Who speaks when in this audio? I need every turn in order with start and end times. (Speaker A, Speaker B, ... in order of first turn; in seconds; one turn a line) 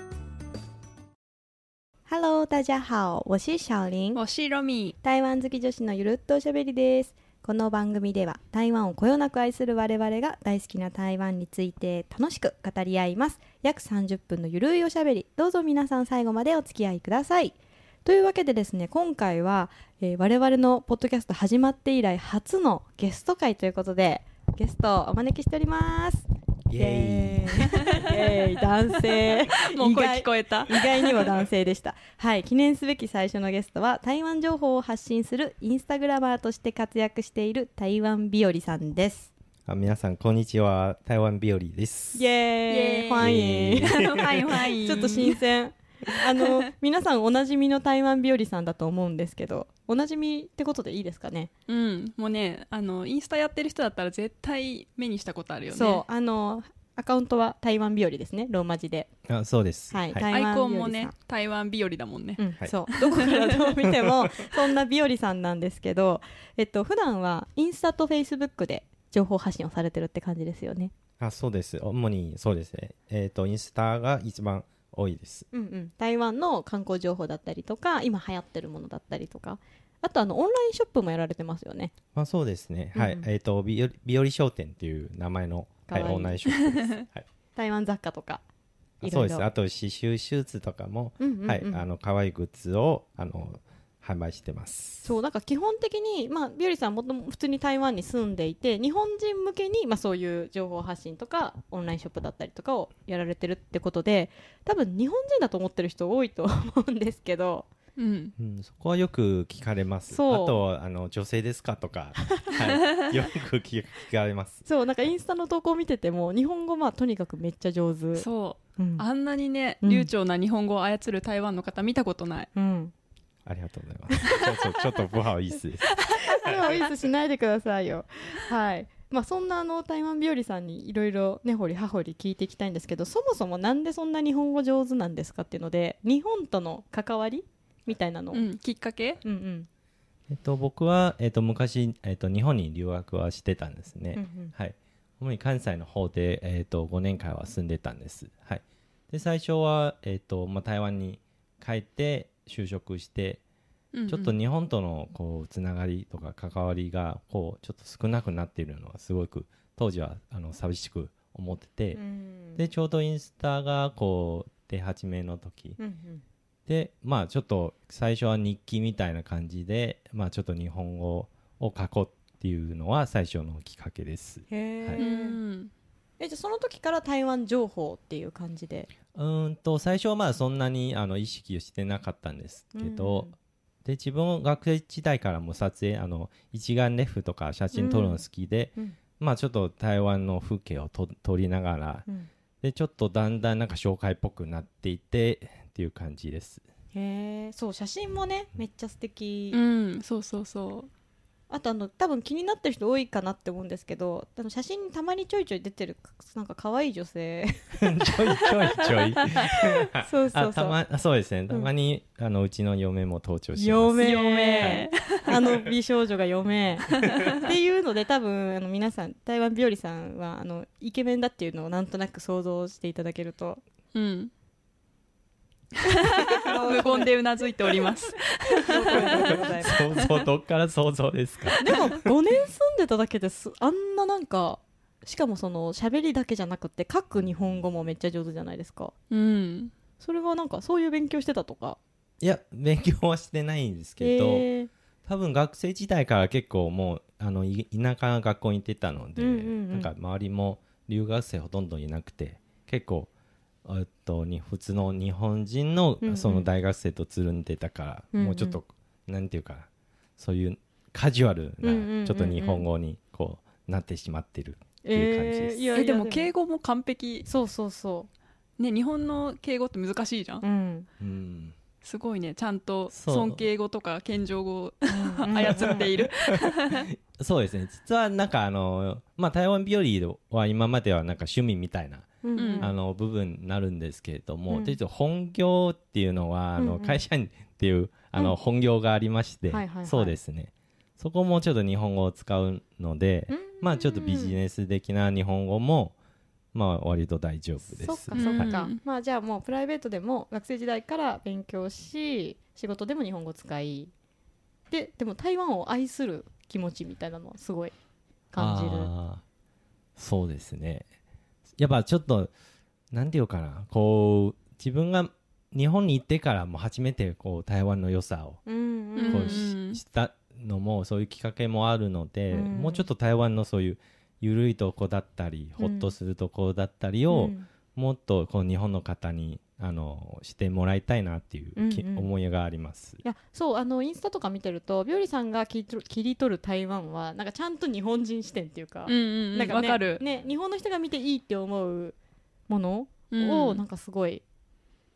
Speaker A: 2.1-4.2
Speaker B: 4.1-4.9
Speaker A: 5.0-39.3
Speaker C: 26.7-28.1
Speaker B: 29.2-31.3
Speaker C: 39.6-42.2
Speaker A: 42.1-51.5
Speaker B: 42.7-45.4
Speaker C: 43.2-45.0
Speaker B: 51.7-56.0
Speaker A: 55.7-59.1
Speaker C: 59.3-60.2
Speaker A: 59.9-61.1
Speaker B: 60.3-63.6
Speaker A: 62.4-70.9
Speaker C: 63.8-64.5
Speaker C: 71.2-75.5
Speaker A: 75.5-81.9
Speaker C: 82.1-87.2
Speaker A: 82.9-83.3
Speaker A: 85.9-86.4
Speaker B: 86.6-86.9
Speaker A: 87.5-88.4
Speaker C: 89.0-95.1
Speaker A: 89.0-89.4
Speaker A: 91.2-91.8
Speaker A: 95.0-107.7
Speaker B: 108.0-108.3
Speaker C: 108.4-114.6
Speaker A: 110.1-110.6
Speaker A: 112.2-112.5
Speaker A: 114.7-118.2
Speaker B: 118.2-122.5
Speaker A: 118.8-119.0
Speaker A: 119.8-120.1
Speaker A: 122.5-122.9
Speaker C: 123.5-126.8
Speaker A: 124.1-124.8
Speaker A: 125.9-138.4
Speaker B: 138.3-139.2
Speaker A: 139.2-139.7
Speaker C: 140.3-153.4
Speaker A: 144.1-144.5
Speaker B: 153.9-154.3
Speaker C: 154.1-162.0
Speaker A: 161.9-162.7
Speaker C: 162.6-165.8
Speaker A: 165.8-166.2
Speaker C: 166.7-175.0
Speaker A: 174.5-175.3
Speaker B: 175.0-175.7
Speaker A: 176.2-178.9
Speaker C: 179.1-183.3
Speaker A: 182.7-183.3
Speaker C: 183.8-192.1
Speaker A: 187.7-188.2
Speaker C: 192.6-196.6
Speaker A: 196.9-199.6
Speaker B: 199.5-200.9
Speaker A: 201.5-210.8
Speaker C: 207.8-214.9
Speaker A: 213.6-223.6
Speaker B: 214.0-215.3
Speaker C: 217.0-217.3
Speaker B: 223.9-224.3
Speaker B: 225.8-230.1
Speaker A: 226.0-227.4
Speaker A: 228.5-229.8
Speaker C: 228.9-231.8
Speaker A: 231.6-238.9
Speaker B: 239.1-239.7
Speaker A: 240.0-241.8
Speaker C: 242.2-244.4
Speaker A: 244.0-244.7
Speaker C: 245.0-253.1
Speaker A: 249.2-249.9
Speaker C: 253.6-265.7
Speaker A: 256.0-256.5
Speaker A: 258.1-258.6
Speaker A: 261.6-262.6
Speaker A: 264.8-266.3
Speaker B: 265.8-267.3
Speaker A: 267.2-268.1
Speaker B: 268.6-270.4
Speaker A: 270.4-270.9
Speaker C: 271.0-271.6
Speaker B: 271.8-276.9
Speaker C: 272.9-273.4
Speaker A: 274.9-275.9
Speaker C: 275.4-295.9
Speaker A: 282.2-282.7
Speaker B: 282.4-282.7
Speaker A: 284.5-284.8
Speaker A: 286.6-287.0
Speaker A: 289.5-290.2
Speaker A: 293.3-294.4
Speaker C: 296.5-298.6
Speaker A: 297.7-303.9
Speaker B: 298.1-298.8
Speaker A: 304.7-307.7
Speaker A: 308.3-308.9
Speaker C: 308.4-309.2
Speaker C: 310.0-310.9
Speaker C: 311.6-312.3
Speaker C: 312.9-318.4
Speaker A: 318.4-319.4
Speaker B: 318.9-319.8
Speaker C: 319.1-333.0
Speaker A: 322.3-322.8
Speaker A: 325.6-325.9
Speaker A: 327.1-327.5
Speaker A: 331.6-332.1
Speaker A: 333.0-341.9
Speaker B: 338.9-340.0
Speaker A: 342.5-344.2
Speaker B: 343.1-343.6